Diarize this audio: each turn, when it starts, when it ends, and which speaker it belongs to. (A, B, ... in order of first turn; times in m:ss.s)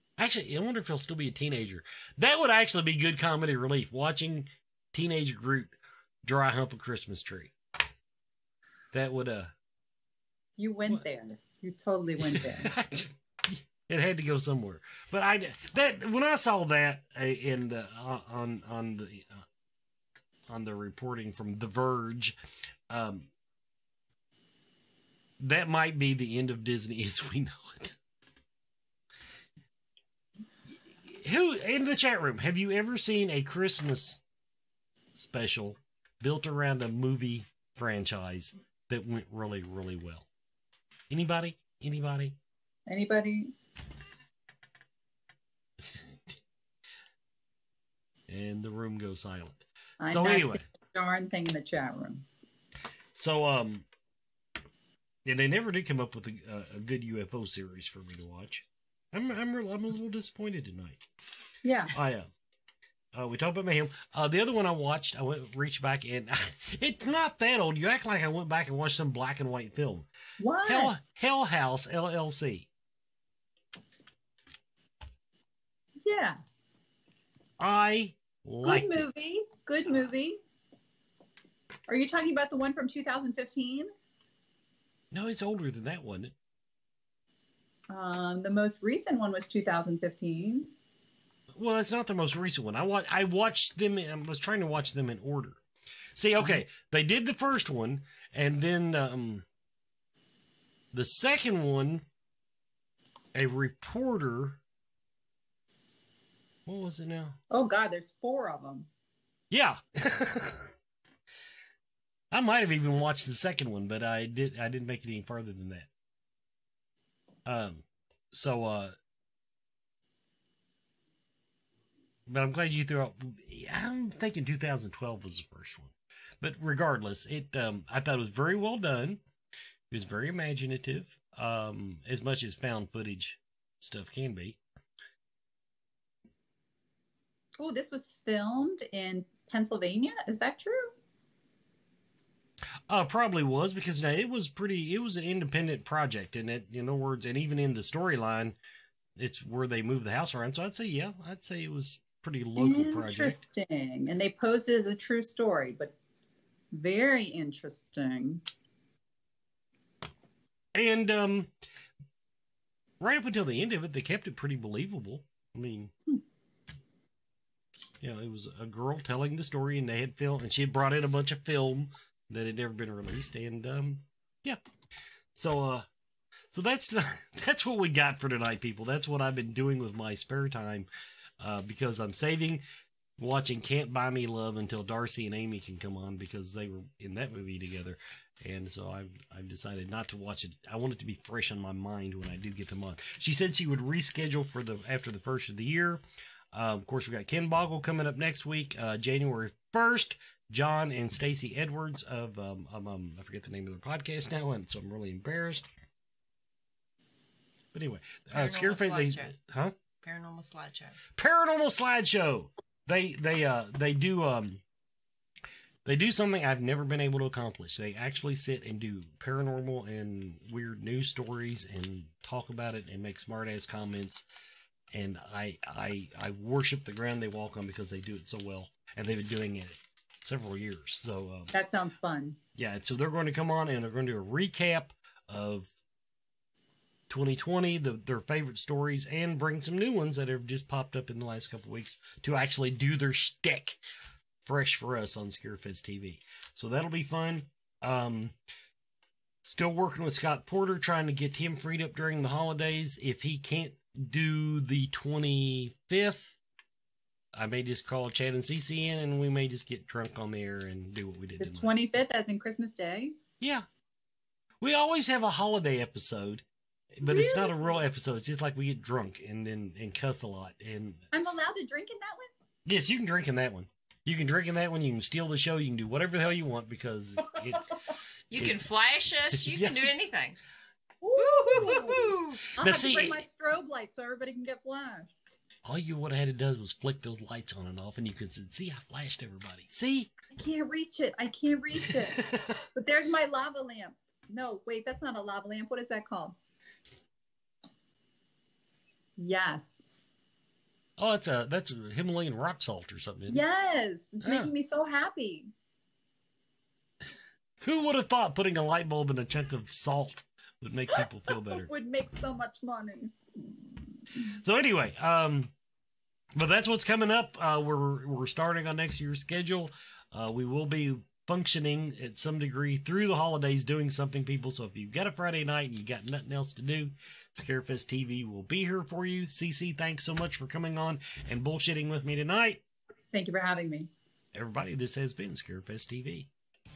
0:00.2-0:07.5 A
0:08.9-0:09.5 A
0:10.6-0:12.7 B
0:12.2-0:19.4 A
0:20.5-0:22.4 A
0:22.9-0:23.3 A
0:25.4-0:28.0 A
0:31.0-0:34.2 A
0:35.1-0:40.2 A
0:41.1-0:42.4 A
0:42.9-0:43.5 B
0:45.8-0:46.3 A
0:48.3-0:50.6 A
0:50.0-0:52.2 B
0:53.1-0:53.8 A
0:55.2-1:01.0 A
1:01.6-1:01.9 B
1:01.9-1:02.3 A
1:03.1-1:10.1 A
1:10.4-1:11.0 B
1:10.6-1:12.7 A
1:16.0-1:16.4 B
1:17.6-1:19.0 A
1:18.6-1:20.4 B
1:21.9-1:23.9 B
1:25.1-1:26.3 A
1:27.9-1:30.7 B
1:31.5-1:35.6 A
1:36.1-1:39.4 A
1:40.9-1:42.0 A
1:43.3-1:44.6 A
1:46.6-1:47.4 A
1:47.5-1:48.9 B
1:49.5-1:50.7 A
1:52.3-1:55.9 A
1:57.4-1:58.9 A
2:02.3-2:09.2 A
2:09.9-2:14.6 A
2:17.6-2:20.9 B
2:22.9-2:28.6 A
2:29.2-2:33.4 A
2:32.6-2:35.9 B
2:36.7-2:38.4 B
2:40.7-2:41.5 A
2:43.0-2:45.9 A
2:48.0-2:54.6 A
2:55.3-2:55.9 A
2:56.5-3:00.9 A
3:01.4-3:02.6 A
3:03.2-3:16.0 A
3:16.5-3:25.7 A
3:27.7-3:29.7 A
3:28.3-3:29.3 C
3:30.0-3:31.0 C
3:31.1-3:34.6 A
3:35.8-3:44.2 A
3:44.9-3:51.5 A
3:51.5-3:52.4 B
3:52.6-3:55.7 A
3:57.1-4:03.8 A
4:04.4-4:08.3 A
4:09.4-4:16.4 A
4:17.3-4:21.8 A
4:21.4-4:23.2 B
4:23.4-4:23.7 A
4:24.6-4:31.0 A
4:27.0-4:27.8 B
4:31.1-4:32.3 B
4:32.6-4:37.7 A
4:38.3-4:40.4 C
4:38.3-4:38.7 A
4:39.3-4:39.9 A
4:41.0-4:45.1 B
4:41.2-4:42.4 C
4:41.5-4:43.2 A
4:45.6-4:50.1 A
4:50.4-4:52.2 B
4:51.8-4:52.6 A
4:52.7-4:56.4 B
4:59.2-4:59.8 B
5:01.0-5:03.4 A
5:03.3-5:05.5 B
5:04.2-5:04.5 A
5:07.6-5:11.7 A
5:11.5-5:13.1 B
5:14.2-5:15.5 A
5:16.3-5:32.6 A
5:33.1-5:33.9 B
5:34.3-5:36.3 A